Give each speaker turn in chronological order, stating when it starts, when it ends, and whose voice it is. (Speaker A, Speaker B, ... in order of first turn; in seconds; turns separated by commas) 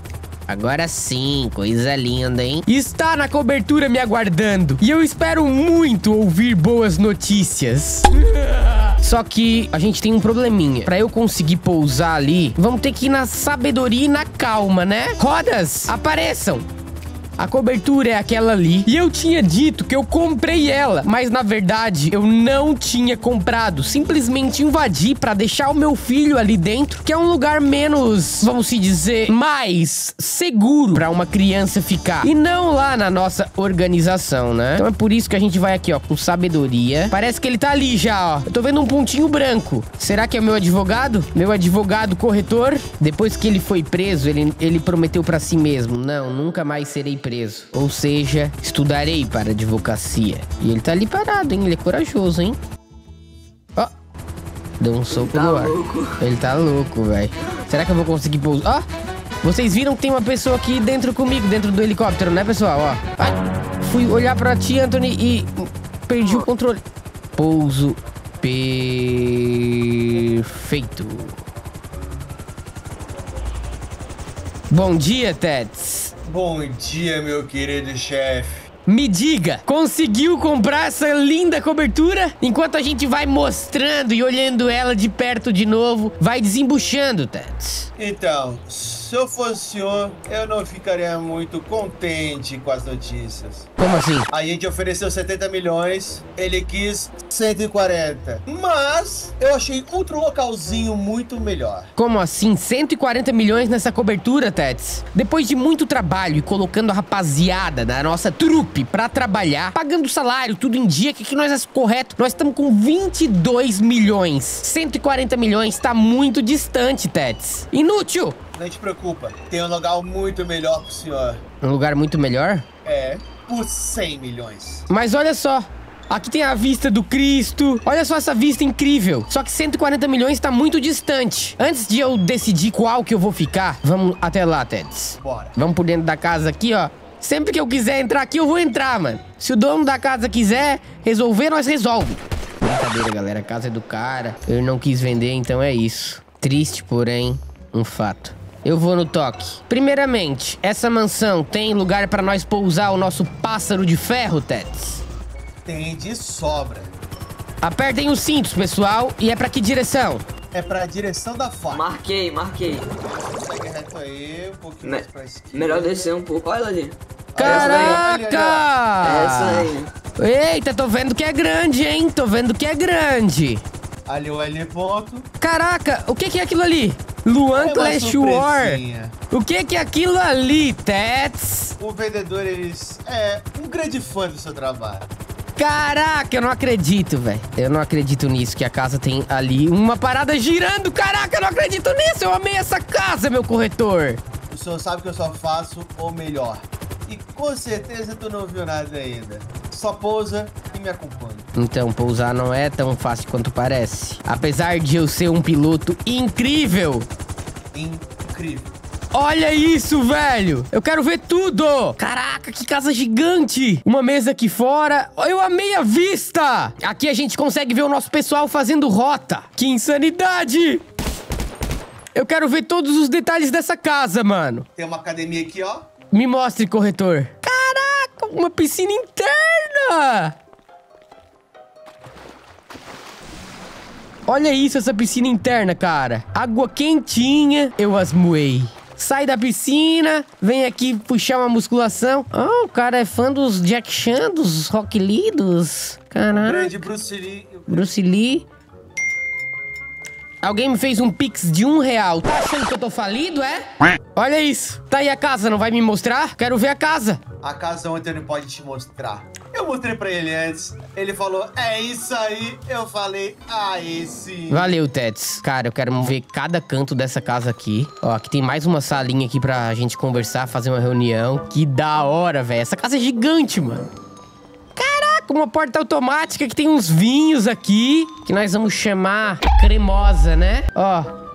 Speaker A: 0.5-16.6, Speaker A: 17.4-52.6, Speaker A: 54.8-58.8, Speaker B: 55.1-56.2, Speaker A: 59.4-66.8, Speaker A: 67.3-71.4, Speaker A: 74.7-76.1, Speaker C: 76.2-78.7, Speaker A: 78.8-87.9, Speaker C: 88.0-93.7, Speaker A: 93.8-94.3, Speaker C: 94.3-101.9, Speaker A: 102.0-118.4, Speaker C: 118.5-121.4, Speaker A: 121.6-122.7, Speaker C: 122.8-124.9, Speaker A: 124.9-155.0, Speaker C: 135.2-135.6, Speaker C: 155.6-156.9, Speaker A: 157.6-160.2, Speaker C: 160.5-161.9, Speaker B: 161.7-162.9, Speaker C: 163.0-166.1, Speaker B: 164.8-168.0, Speaker C: 167.3-168.7, Speaker A: 167.3-173.6, Speaker B: 169.0-169.9, Speaker C: 174.1-175.3, Speaker A: 175.4-181.8, Speaker C: 177.5-179.2, Speaker C: 181.8-185.1, Speaker A: 185.6-194.2, Speaker C: 194.5-201.5, Speaker A: 201.5-207.1, Speaker C: 207.7-208.7, Speaker A: 209.1-220.8, Speaker A: 222.1-224.7, Speaker C: 224.8-225.9, Speaker A: 226.1-230.3, Speaker A: 234.3-246.8, Speaker C: 246.3-247.9, Speaker A: 247.7-248.4, Speaker A: 250.4-257.2, Speaker C: 257.4-264.7, Speaker A: 264.5-273.9, Speaker A: 274.8-281.1